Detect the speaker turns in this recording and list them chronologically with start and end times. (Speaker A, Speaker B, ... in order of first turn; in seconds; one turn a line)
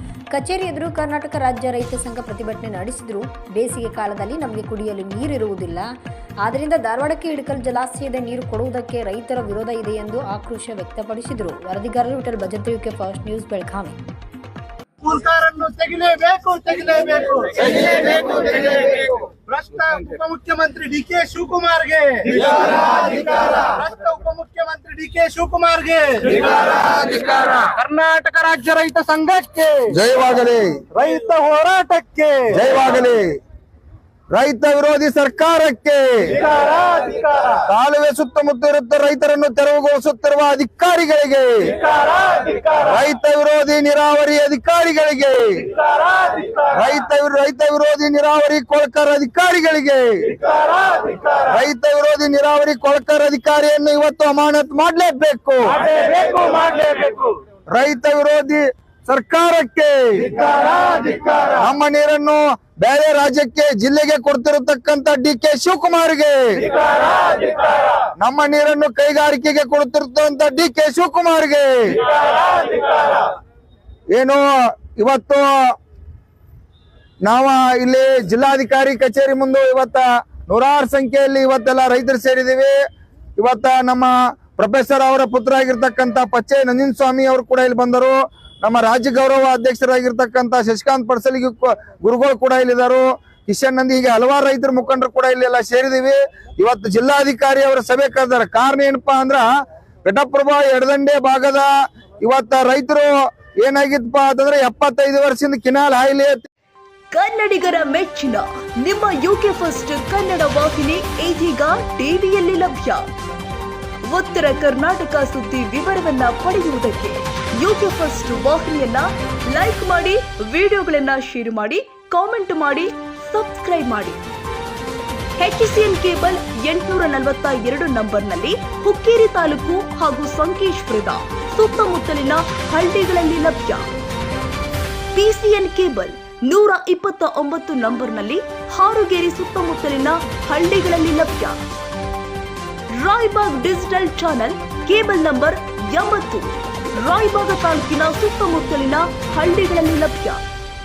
Speaker A: 0.3-5.9
Speaker A: 6.4-13.9
Speaker B: 15.0-29.9
Speaker C: 29.9-30.8
Speaker B: 30.9-32.5
Speaker C: 32.5-33.2
Speaker C: 34.3-36.4
Speaker B: 37.0-37.4
Speaker C: 37.7-41.8
Speaker C: 42.5-45.7
Speaker C: 46.6-50.4
Speaker C: 51.1-66.7
Speaker C: 68.2-72.0
Speaker C: 74.1-75.5
Speaker C: 77.2-82.8
Speaker C: 83.4-99.5
Speaker C: 100.0-101.7
Speaker C: 102.2-103.1
Speaker C: 103.6-106.4
Speaker D: 107.1-113.1
Speaker D: 114.1-124.2
Speaker D: 125.4-133.9
Speaker D: 135.1-141.6
Speaker D: 142.9-150.4